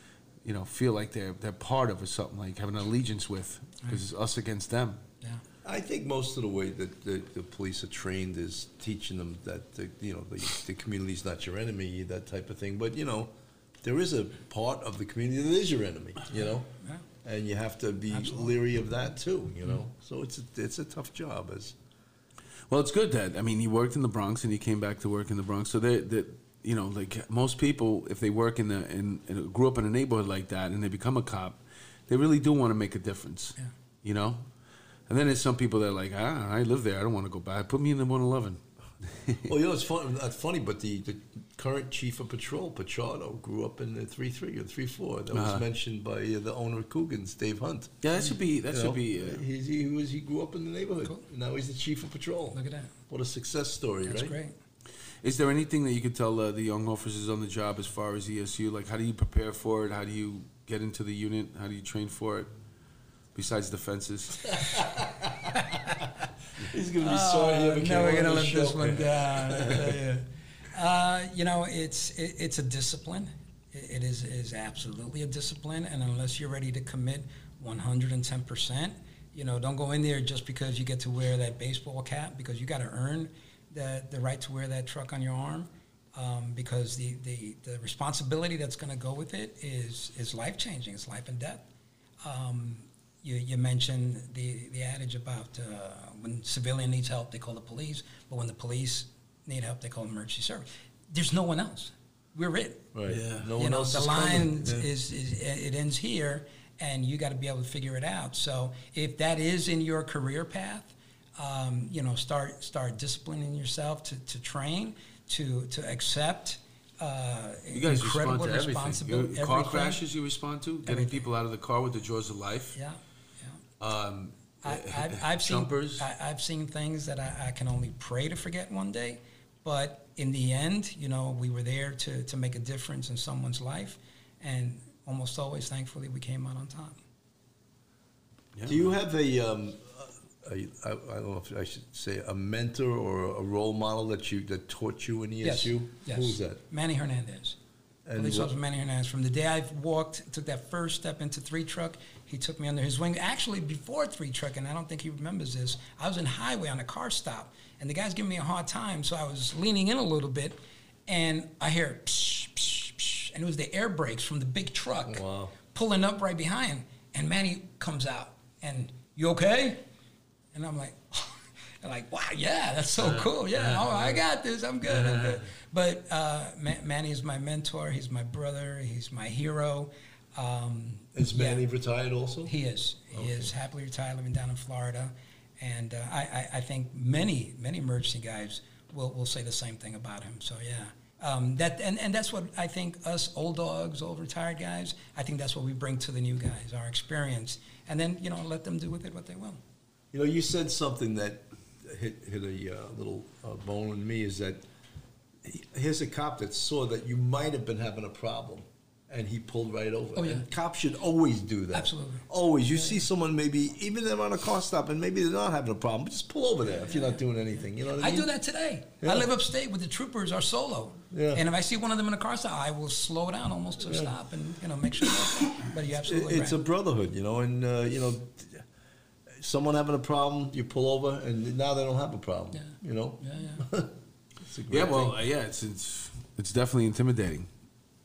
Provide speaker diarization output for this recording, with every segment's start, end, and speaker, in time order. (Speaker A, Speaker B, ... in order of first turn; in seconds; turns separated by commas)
Speaker A: 0.4-5.0, Speaker B: 5.7-16.7, Speaker B: 17.2-21.8, Speaker C: 18.1-18.5, Speaker A: 22.7-34.4, Speaker A: 35.1-39.5, Speaker B: 39.5-48.0, Speaker A: 45.3-45.6, Speaker A: 48.0-49.4, Speaker B: 48.7-52.6, Speaker C: 52.5-52.9, Speaker B: 53.1-54.4, Speaker C: 54.1-54.5, Speaker A: 55.2-62.5, Speaker A: 63.3-64.7, Speaker C: 65.5-66.0, Speaker B: 66.6-70.0, Speaker C: 67.0-91.7, Speaker C: 92.2-102.9, Speaker B: 102.9-104.9, Speaker A: 103.1-103.5, Speaker C: 103.6-120.0, Speaker A: 117.7-122.8, Speaker C: 120.9-121.2, Speaker C: 122.8-123.6, Speaker A: 123.8-126.1, Speaker C: 124.6-137.0, Speaker A: 138.6-138.9, Speaker B: 138.7-146.6, Speaker C: 145.4-147.6, Speaker B: 148.1-148.6, Speaker C: 148.2-169.8, Speaker B: 165.1-165.6, Speaker C: 170.5-181.6, Speaker A: 173.0-174.1, Speaker A: 174.9-175.4, Speaker B: 181.2-182.5, Speaker C: 182.5-199.6, Speaker B: 183.1-183.5, Speaker B: 200.1-204.6, Speaker B: 205.4-218.3, Speaker C: 210.2-210.4, Speaker C: 211.7-212.2, Speaker C: 216.8-217.2, Speaker C: 218.0-226.6, Speaker B: 219.0-219.3, Speaker B: 221.1-221.4, Speaker B: 223.8-224.1, Speaker B: 226.0-228.7, Speaker B: 229.4-235.2, Speaker C: 232.6-233.6, Speaker A: 234.7-237.5